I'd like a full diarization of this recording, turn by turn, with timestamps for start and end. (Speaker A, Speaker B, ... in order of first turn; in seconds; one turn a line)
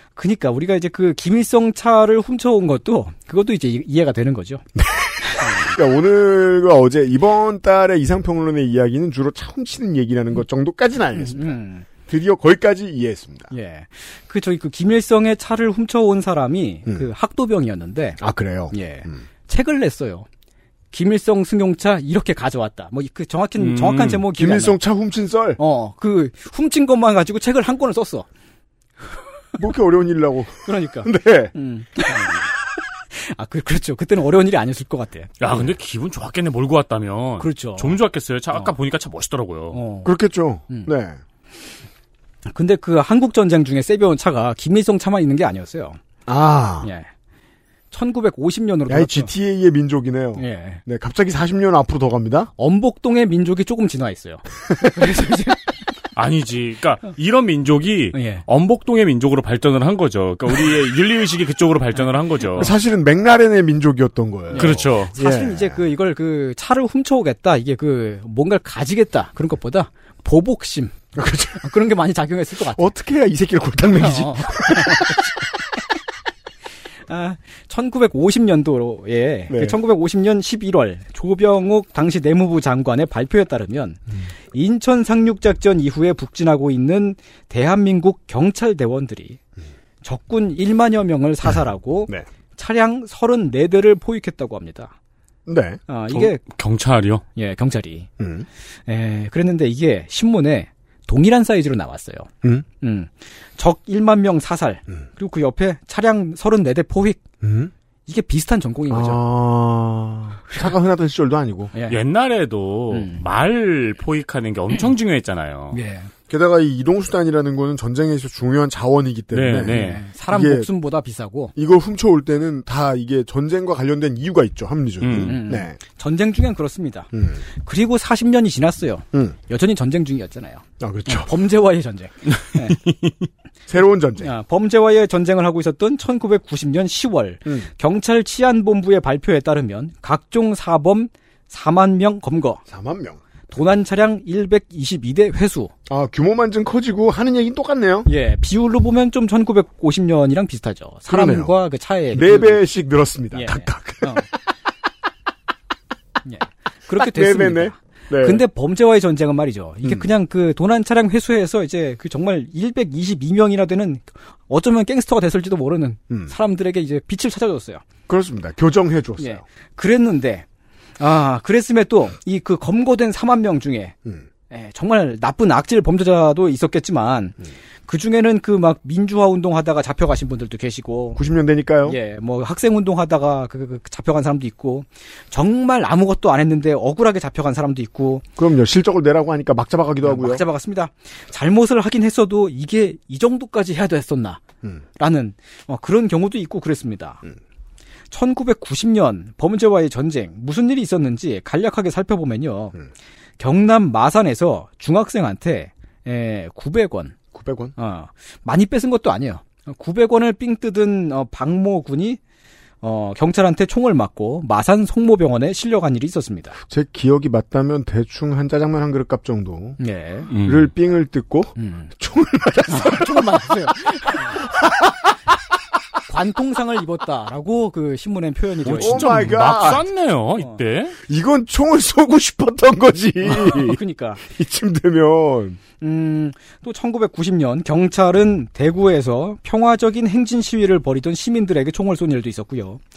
Speaker A: 0.1-4.6
Speaker B: 4.8-11.6
Speaker A: 5.4-5.7
Speaker A: 11.2-11.8
Speaker B: 12.1-13.5
Speaker A: 13.5-20.2
Speaker B: 18.2-19.2
Speaker A: 20.9-24.8
Speaker C: 23.6-24.2
Speaker B: 24.3-25.6
Speaker A: 25.6-28.2
Speaker B: 29.6-31.5
Speaker A: 30.6-32.5
Speaker A: 33.1-35.3
Speaker C: 35.4-39.8
Speaker A: 37.4-38.0
Speaker A: 39.7-40.1
Speaker B: 40.0-41.2
Speaker A: 42.5-46.0
Speaker B: 46.3-46.9
Speaker A: 46.8-47.1
Speaker A: 47.9-49.3
Speaker B: 48.9-52.5
Speaker A: 50.4-50.8
Speaker A: 52.6-55.6
Speaker C: 56.1-62.7
Speaker A: 58.1-58.4
Speaker B: 62.5-65.8
Speaker A: 64.5-71.0
Speaker C: 64.6-65.1
Speaker B: 71.1-71.7
Speaker A: 71.6-72.9
Speaker B: 72.7-75.3
Speaker A: 73.9-75.2
Speaker A: 77.1-89.4
Speaker B: 79.5-79.8
Speaker A: 90.0-94.9
Speaker B: 95.5-95.8
Speaker A: 95.9-96.4
Speaker C: 96.1-97.2
Speaker A: 97.3-98.1
Speaker B: 98.2-98.5
Speaker A: 98.9-102.3
Speaker A: 102.8-107.2
Speaker B: 107.4-107.7
Speaker A: 108.0-109.2
Speaker B: 108.9-111.7
Speaker C: 111.9-115.8
Speaker A: 112.9-113.2
Speaker A: 115.7-116.1
Speaker B: 116.3-120.7
Speaker C: 119.3-120.0
Speaker A: 119.6-121.5
Speaker B: 121.5-125.8
Speaker C: 125.0-125.4
Speaker A: 125.2-132.8
Speaker B: 127.1-127.4
Speaker B: 130.8-131.3
Speaker C: 132.3-133.3
Speaker B: 133.7-134.3
Speaker A: 134.2-142.6
Speaker B: 142.7-143.2
Speaker A: 143.5-145.7
Speaker B: 145.9-148.1
Speaker A: 148.1-152.6
Speaker B: 151.1-151.5
Speaker B: 152.1-154.4
Speaker A: 153.3-154.3
Speaker A: 156.2-167.8
Speaker B: 156.9-158.4
Speaker B: 168.1-169.4
Speaker A: 169.2-170.4
Speaker A: 171.0-173.9
Speaker A: 174.5-181.2
Speaker B: 181.2-182.0
Speaker A: 181.8-188.2
Speaker B: 188.4-190.4
Speaker A: 190.0-194.4
Speaker A: 195.0-197.2
Speaker A: 198.1-202.8
Speaker A: 203.4-207.2
Speaker B: 207.3-207.7
Speaker A: 207.8-212.2
Speaker A: 212.8-216.6
Speaker B: 216.7-219.8
Speaker A: 219.8-220.3
Speaker C: 220.3-220.7
Speaker B: 220.4-224.9
Speaker A: 221.6-221.9
Speaker A: 222.7-224.4
Speaker A: 226.1-229.3
Speaker C: 228.6-231.0
Speaker B: 228.7-229.8
Speaker B: 231.1-235.6
Speaker A: 233.2-234.2
Speaker A: 235.8-242.8